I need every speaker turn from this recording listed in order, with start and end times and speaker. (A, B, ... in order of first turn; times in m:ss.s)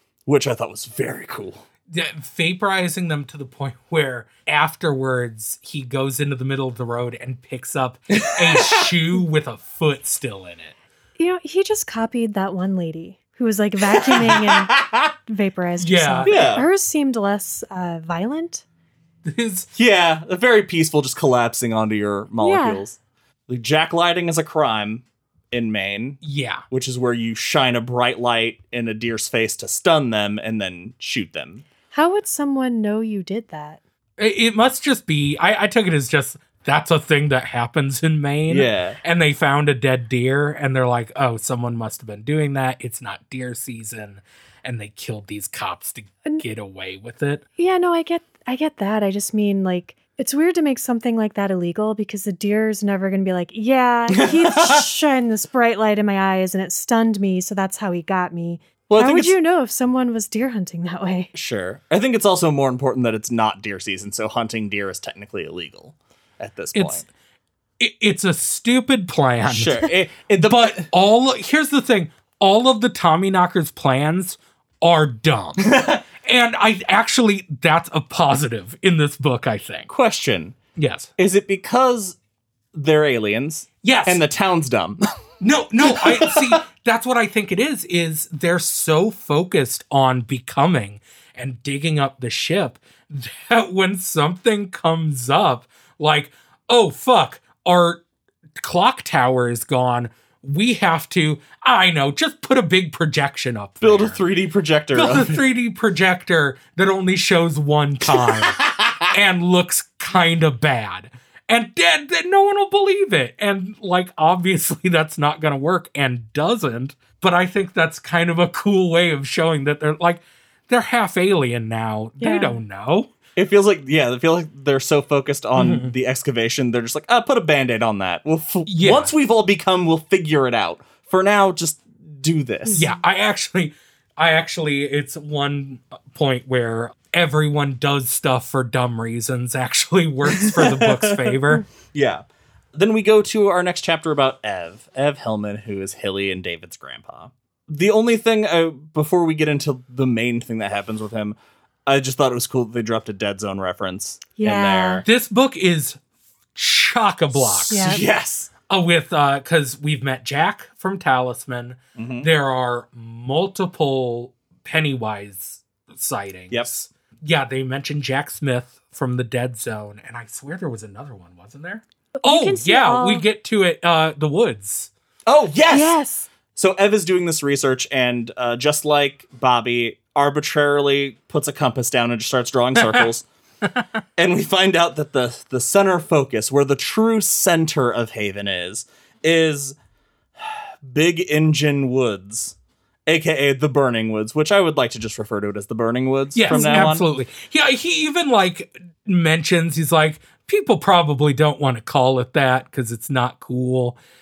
0:00.2-0:01.6 A
0:01.9-0:10.7 B
0:08.1-0:08.8 A
0:11.2-0:18.6 C
0:14.0-0:15.1 A
0:15.8-0:16.4 B
0:16.2-0:16.6 A
0:19.2-0:19.7 B
0:19.7-0:26.2 A
0:22.4-0:22.8 C
0:26.2-0:26.6 B
0:26.7-0:31.6 A
0:31.9-0:33.8 C
0:34.2-0:47.4 B
0:38.5-0:39.0 A
0:47.6-1:01.3 C
0:54.1-0:54.8 A
0:58.9-0:59.4 A
1:01.3-1:07.0 A
1:06.8-1:07.0 B
1:07.8-1:19.9 B
1:09.4-1:10.9 A
1:15.7-1:16.0 A
1:19.9-1:20.6 A
1:20.8-1:21.1 B
1:21.2-1:22.2 A
1:22.7-1:25.0 A
1:23.8-1:24.2 B
1:25.4-1:38.0 B
1:25.8-1:26.6 A
1:38.6-1:44.2 B
1:43.8-1:45.4 A
1:44.9-2:03.1 B
1:48.1-1:49.1 A
2:02.2-2:02.6 C
2:03.3-2:12.9 A
2:05.6-2:05.9 B
2:08.6-2:09.1 B
2:12.7-2:21.6 B
2:20.3-2:21.4 A
2:21.9-2:35.0 A
2:34.4-2:35.0 C
2:35.0-2:36.0 B
2:36.5-2:37.9 B
2:37.3-2:38.5 A
2:37.7-2:38.0 C
2:38.7-2:54.9 B
2:42.0-2:42.3 A
2:52.2-2:53.2 C
2:55.2-2:56.0 A
2:55.7-2:56.3 C
2:56.5-3:03.2 A
3:02.8-3:03.0 B
3:04.2-3:09.8 A
3:10.4-3:12.6 A
3:13.1-3:17.0 A
3:16.3-3:24.0 B
3:16.5-3:17.0 C